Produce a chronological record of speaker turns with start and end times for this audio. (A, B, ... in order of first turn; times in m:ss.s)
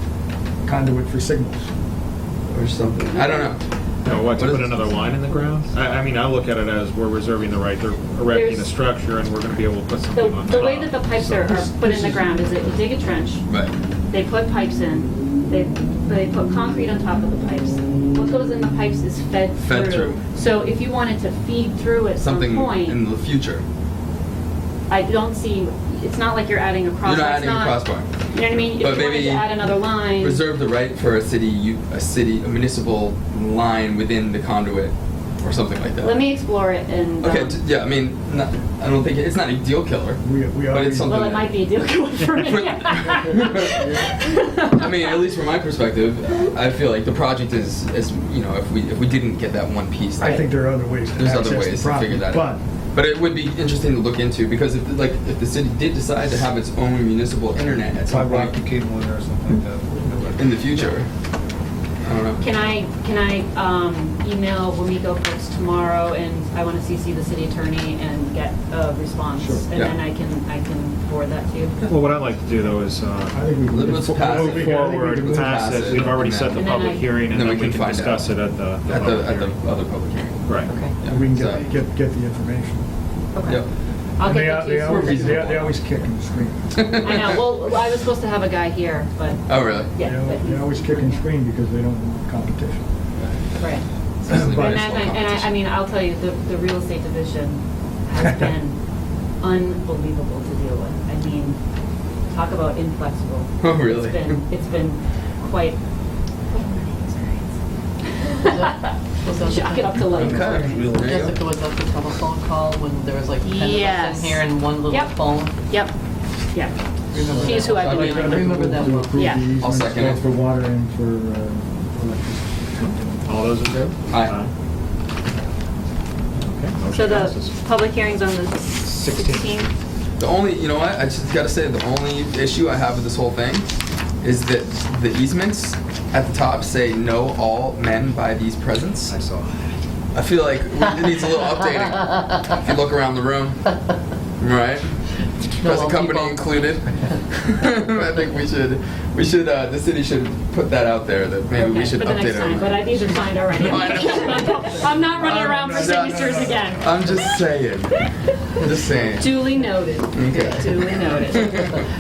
0:00.6-0:01.7 A
0:02.5-0:04.8 B
0:03.1-0:03.5 C
0:04.0-0:11.6 D
0:08.3-0:08.7 C
0:10.1-0:13.4 C
0:11.5-0:12.5 A
0:13.5-0:13.8 B
0:14.1-0:23.0 C
0:19.6-0:20.2 B
0:22.2-0:23.6 B
0:24.9-0:30.4 C
0:27.0-0:28.1 B
0:28.7-0:36.3 B
0:36.0-0:37.6 C
0:37.2-0:41.6 B
0:40.2-0:41.4 A
0:41.1-0:45.2 C
0:42.4-0:44.0 B
0:44.7-0:50.5 B
0:50.2-0:52.6 A
0:51.2-0:58.6 B
0:58.1-1:00.9 E
1:00.4-1:01.1 B
1:02.0-1:02.4 B
1:02.4-1:11.7 C
1:09.4-1:09.7 A
1:11.8-1:13.4 D
1:13.3-1:16.2 A
1:13.7-1:18.3 B
1:14.2-1:19.6 D
1:16.6-1:17.1 C
1:18.9-1:20.4 B
1:20.4-1:20.7 D
1:20.7-1:21.8 F
1:21.0-1:21.6 B
1:21.0-1:22.9 A
1:24.2-1:25.4 C
1:24.2-1:27.0 A
1:24.7-1:25.9 B
1:26.8-1:27.4 B
1:27.0-1:31.2 C
1:29.5-1:29.9 B
1:30.0-1:32.9 A
1:34.3-1:35.0 A
1:34.3-1:35.5 B
1:34.4-1:38.8 C
1:39.4-1:41.6 C
1:42.3-1:45.8 C
1:43.6-1:44.4 B
1:46.5-1:47.5 C
1:48.3-1:48.9 C
1:48.4-1:55.7 F
1:49.4-1:50.6 C
1:50.0-1:51.3 E
1:50.2-1:51.4 B
1:53.4-1:55.1 C
1:55.7-1:55.9 C
1:57.1-1:59.3 F
1:57.2-2:03.4 A
1:57.4-1:58.4 C
1:57.8-1:58.4 B
1:59.5-2:00.2 B
2:03.2-2:04.5 D
2:04.1-2:04.4 B
2:06.4-2:07.6 D
2:06.9-2:09.7 C
2:10.2-2:13.7 B
2:14.2-2:19.2 B
2:20.1-2:23.7 B
2:24.4-2:25.0 B
2:25.6-2:39.5 B
2:25.6-2:26.5 F
2:31.6-2:37.4 C
2:34.8-2:37.0 A
2:38.6-2:39.0 A
2:39.2-2:41.6 C
2:40.1-2:41.8 B
2:40.3-2:40.8 F